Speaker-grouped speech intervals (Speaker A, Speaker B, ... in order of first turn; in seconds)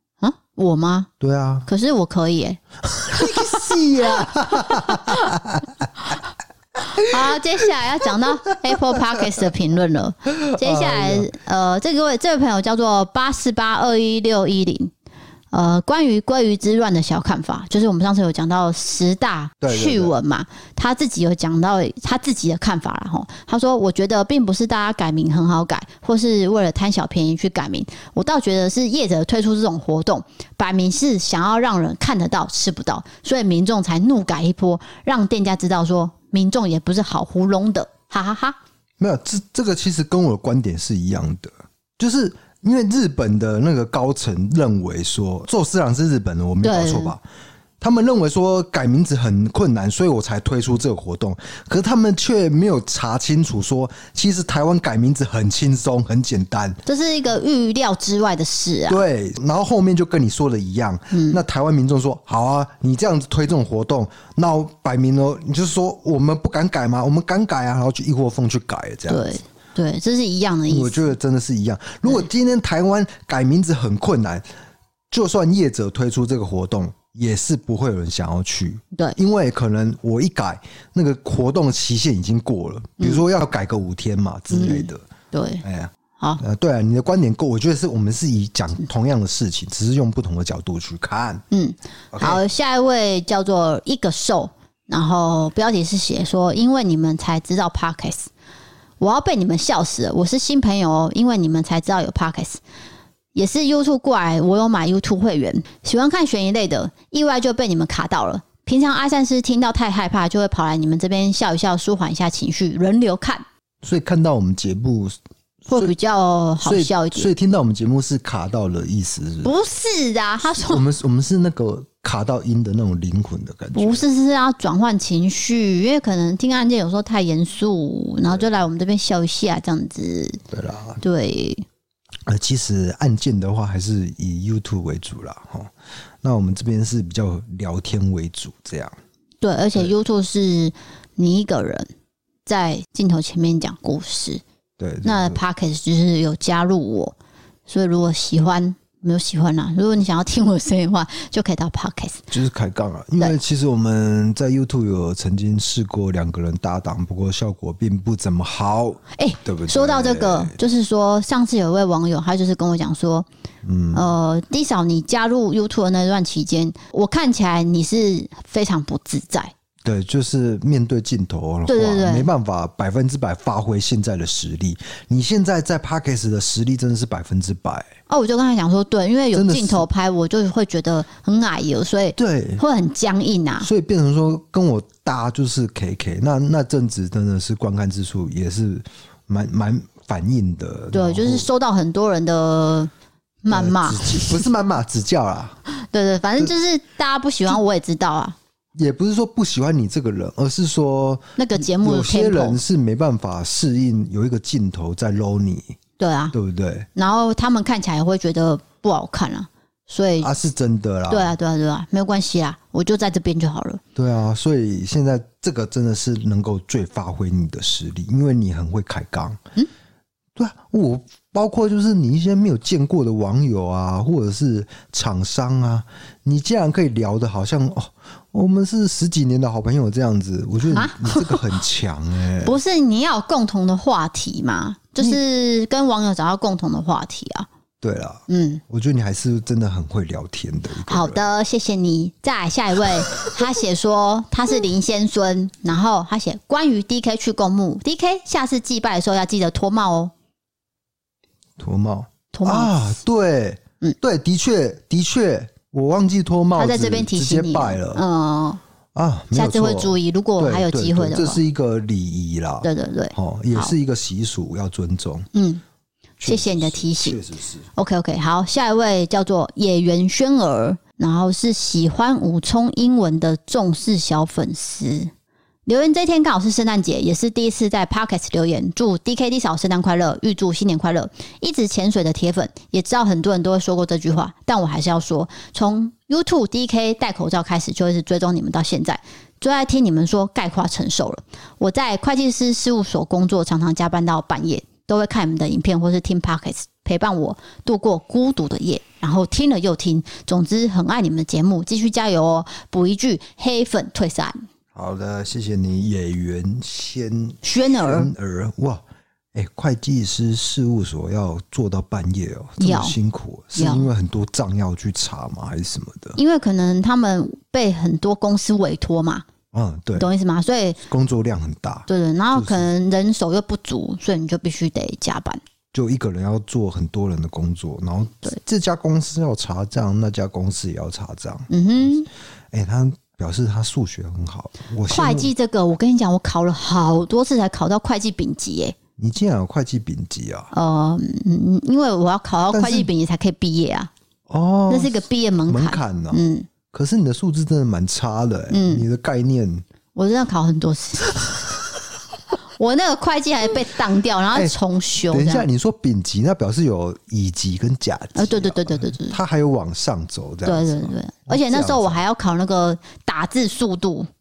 Speaker A: 0.2-1.1, 1.7-3.5, 4.5-5.3, 6.9-14.9, 15.5-38.6, 46.6-47.1, 56.9-59.0, 61.1-61.4, 69.1-71.1, 84.5-85.6, 91.5-98.3, 99.0-102.6, 103.3-113.4, 115.7-117.3, 119.4-120.8, 123.7-130.4, 131.0-131.6, 139.4-141.9, 142.4-144.4, 145.0-147.1, 147.7-152.2, 159.2-163.3, 163.9-169.5, 171.7-172.3, 178.1-183.7, 190.9-192.9, 193.4-194.3, 195.7-198.3, 201.4-202.6, 206.0-206.3, 206.9-210.3, 211.1-213.8, 230.6-231.4, 232.4-237.5, 238.3-238.6, 240.9-250.1, 252.3-252.7, 256.5-258.6, 259.3-261.4, 262.6-263.7, 265.3-265.6, 266.2-267.2, 267.8-275.1, 275.6-304.4, 307.4-308.1, 312.6-313.0, 313.6-313.9, 316.2-319.2, 319.9-320.8, 321.9-325.4, 331.5-332.1, 334.9-338.8, 340.5-343.9, 344.7-346.5, 348.5-348.9, 349.9-351.2, 352.6-355.5, 358.1-359.2, 360.4-364.1
Speaker B: 1.2-1.7, 3.0-5.9, 10.5-11.3, 19.6-20.1, 39.0-47.2, 47.8-56.8, 58.9-69.4, 70.7-74.4, 75.1-85.0, 85.6-91.4, 92.1-92.4, 113.8-115.1, 115.7-115.9, 116.6-119.5, 120.6-124.0, 130.5-131.0, 132.3-138.9, 144.8-145.4, 152.3-160.6, 163.6-164.1, 169.8-177.9, 179.3-179.8, 182.2-182.6, 183.6-191.5, 193.5-195.6, 198.7-205.8, 206.3-206.9, 210.2-211.3, 213.9-219.4, 220.3-232.6, 237.8-241.2, 251.6-258.0, 258.9-265.3, 266.2-267.7, 304.7-308.8, 309.3-316.2, 319.5-320.1, 320.9-322.7, 325.7-331.9, 332.5-335.3, 339.0-340.5, 342.5-342.9, 344.3-349.6, 355.1-362.0